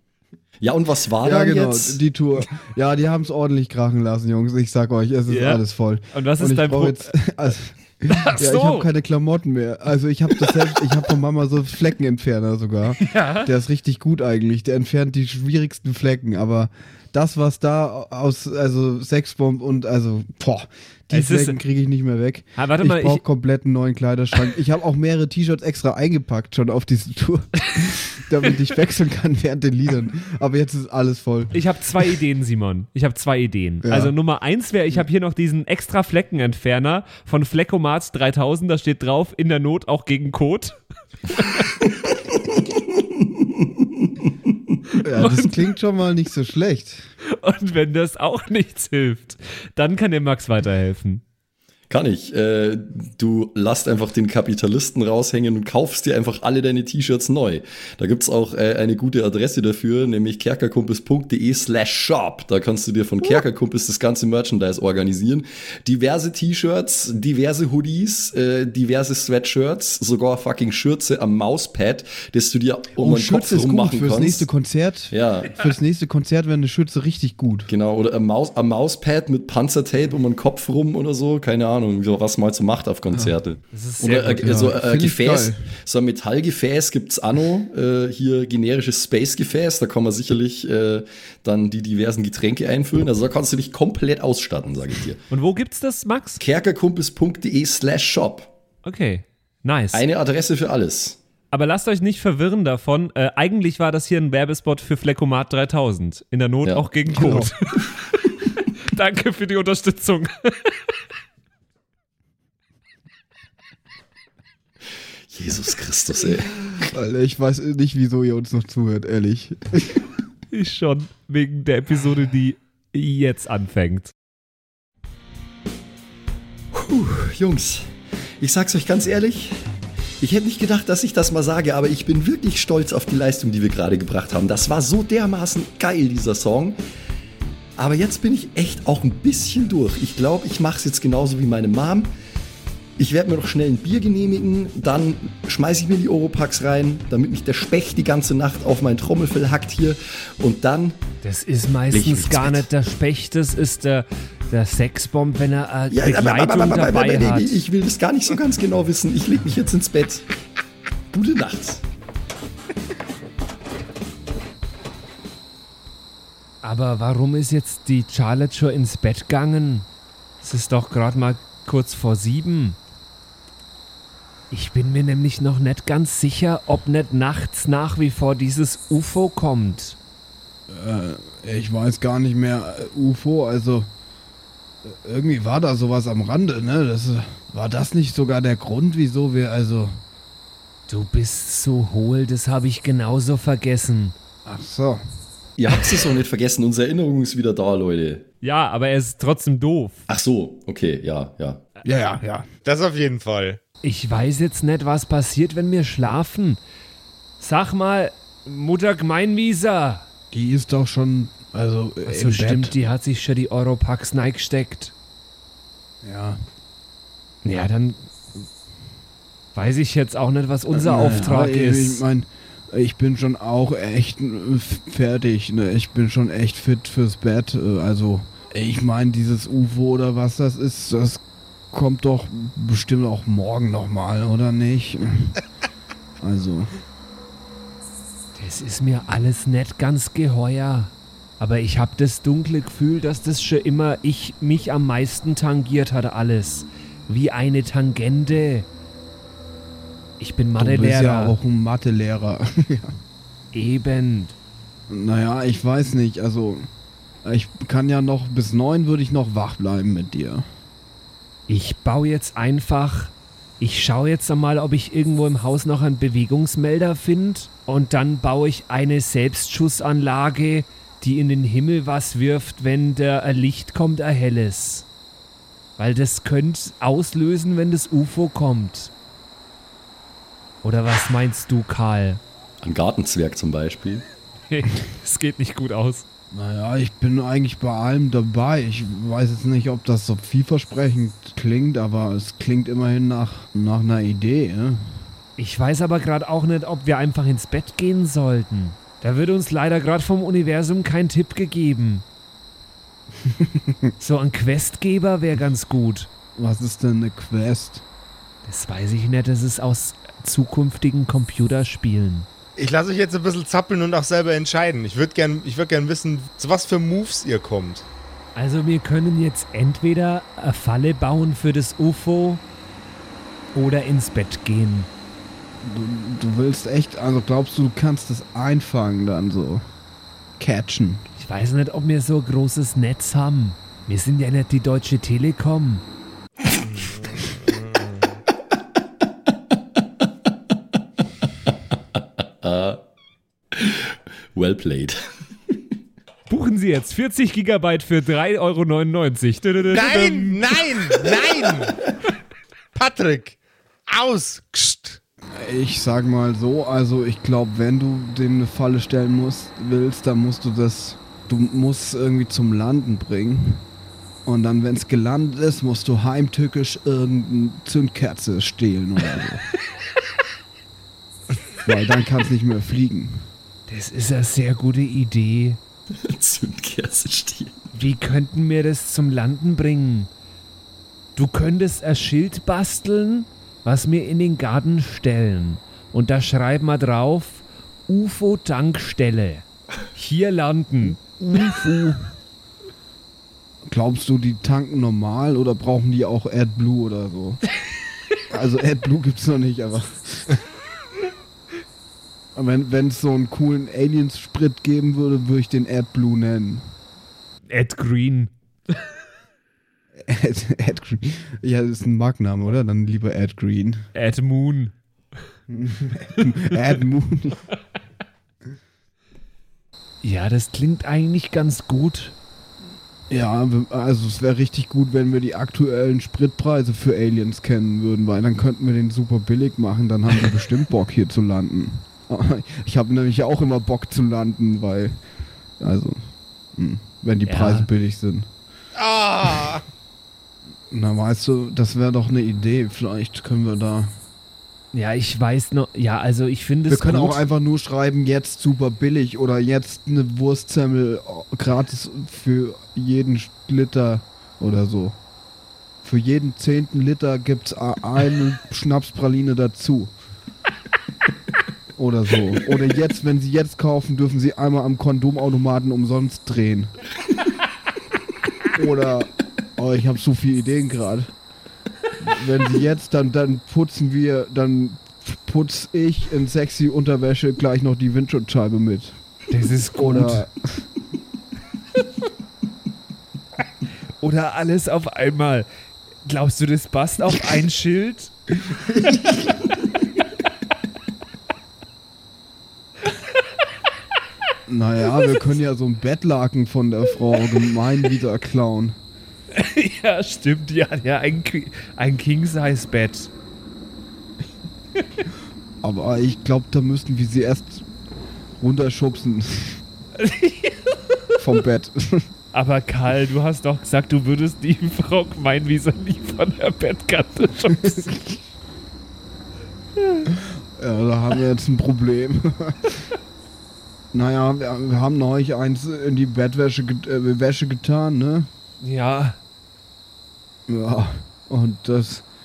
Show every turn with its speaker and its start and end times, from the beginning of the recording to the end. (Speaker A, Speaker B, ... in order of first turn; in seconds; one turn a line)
Speaker A: 0.6-2.0
Speaker B: 1.2-31.6
Speaker C: 5.3-7.1
Speaker C: 8.1-8.9
Speaker C: 13.0-13.5
Speaker C: 21.1-21.6
Speaker C: 22.6-23.2
Speaker C: 31.5-40.8
Speaker B: 33.8-34.1
Speaker C: 41.3-41.6
Speaker A: 43.4-43.6
Speaker C: 45.0-45.6
Speaker B: 45.0-47.1
Speaker C: 47.4-51.2
Speaker A: 51.9-74.5
Speaker B: 73.0-77.7
Speaker A: 75.1-75.7
Speaker A: 77.7-95.2
Speaker C: 83.7-84.6
Speaker B: 84.3-85.6
Speaker C: 95.3-96.4
Speaker A: 96.4-98.5
Speaker C: 98.8-100.0
Speaker A: 99.9-101.2
Speaker C: 101.5-108.0
Speaker B: 107.1-107.5
Speaker C: 108.8-110.8
Speaker A: 115.3-116.6
Speaker B: 116.8-120.0
Speaker C: 120.5-124.1
Speaker A: 126.7-127.9
Speaker A: 128.4-129.6
Speaker A: 130.2-136.8
Speaker A: 137.8-142.1
Speaker A: 143.0-151.0
Speaker C: 151.2-157.6
Speaker A: 151.9-152.7
Speaker A: 155.9-160.2
Speaker A: 161.1-161.8
Speaker C: 166.6-169.9
Speaker C: 170.4-172.8
Speaker C: 174.5-180.0
Speaker B: 180.7-183.9
Speaker B: 184.8-190.0
Speaker C: 190.9-194.1
Speaker B: 194.4-195.0
Speaker A: 195.6-198.2
Speaker C: 198.4-200.0
Speaker A: 200.1-201.6
Speaker B: 201.8-202.5
Speaker D: 202.6-203.6
Speaker C: 203.8-206.6
Speaker C: 207.4-210.1
Speaker B: 210.3-212.8
Speaker C: 212.1-214.9
Speaker B: 216.0-216.4
Speaker C: 217.4-218.1
Speaker C: 219.5-222.0
Speaker B: 220.8-235.4
Speaker B: 236.2-236.7
Speaker C: 238.4-248.7
Speaker C: 250.2-251.4
Speaker B: 250.6-253.0
Speaker C: 253.5-254.3
Speaker B: 254.9-256.7
Speaker B: 257.2-260.5
Speaker C: 261.5-274.9
Speaker C: 275.8-278.9
Speaker C: 280.6-282.2
Speaker A: 282.6-284.0
Speaker C: 284.5-286.0
Speaker B: 286.3-295.0
Speaker C: 295.4-302.0
Speaker B: 303.2-303.9
Speaker C: 304.0-306.1
Speaker B: 306.4-307.8
Speaker C: 308.5-312.3
Speaker D: 312.6-317.9
Speaker C: 318.4-322.4
Speaker C: 323.5-324.9
Speaker B: 325.6-329.6
Speaker B: 330.4-331.0
Speaker C: 331.1-335.8
Speaker D: 336.6-338.1
Speaker A: 342.4-342.8
Speaker A: 343.5-345.0
Speaker C: 346.3-350.4
Speaker D: 349.7-351.8
Speaker D: 352.8-355.0
Speaker B: 355.3-363.6
Speaker B: 364.2-369.4
Speaker B: 371.6-373.3
Speaker C: 373.7-375.6
Speaker A: 375.9-377.6
Speaker C: 377.7-380.1
Speaker C: 381.1-391.2
Speaker B: 391.2-391.9
Speaker B: 393.6-397.4
Speaker B: 398.3-400.4
Speaker B: 402.4-406.7
Speaker C: 407.5-408.3
Speaker B: 410.0-413.9
Speaker C: 413.9-414.7
Speaker B: 415.5-417.4
Speaker C: 420.0-422.1
Speaker B: 423.1-435.0
Speaker B: 435.6-438.3
Speaker C: 437.2-437.7
Speaker D: 438.8-439.6
Speaker B: 440.7-443.9
Speaker C: 444.7-447.2
Speaker B: 446.7-455.0
Speaker B: 455.8-459.9
Speaker B: 461.8-466.7
Speaker B: 468.5-471.1
Speaker B: 472.0-479.0
Speaker C: 479.3-480.2
Speaker B: 479.8-480.6
Speaker C: 484.0-485.5
Speaker C: 486.0-488.1
Speaker B: 494.5-498.8
Speaker C: 499.3-503.1
Speaker B: 505.6-507.7
Speaker B: 508.4-509.6
Speaker C: 510.0-511.0
Speaker B: 511.2-512.1
Speaker C: 512.3-517.9
Speaker B: 517.6-518.0
Speaker B: 520.5-522.7
Speaker B: 523.9-528.3
Speaker C: 528.6-529.2
Speaker B: 530.5-532.0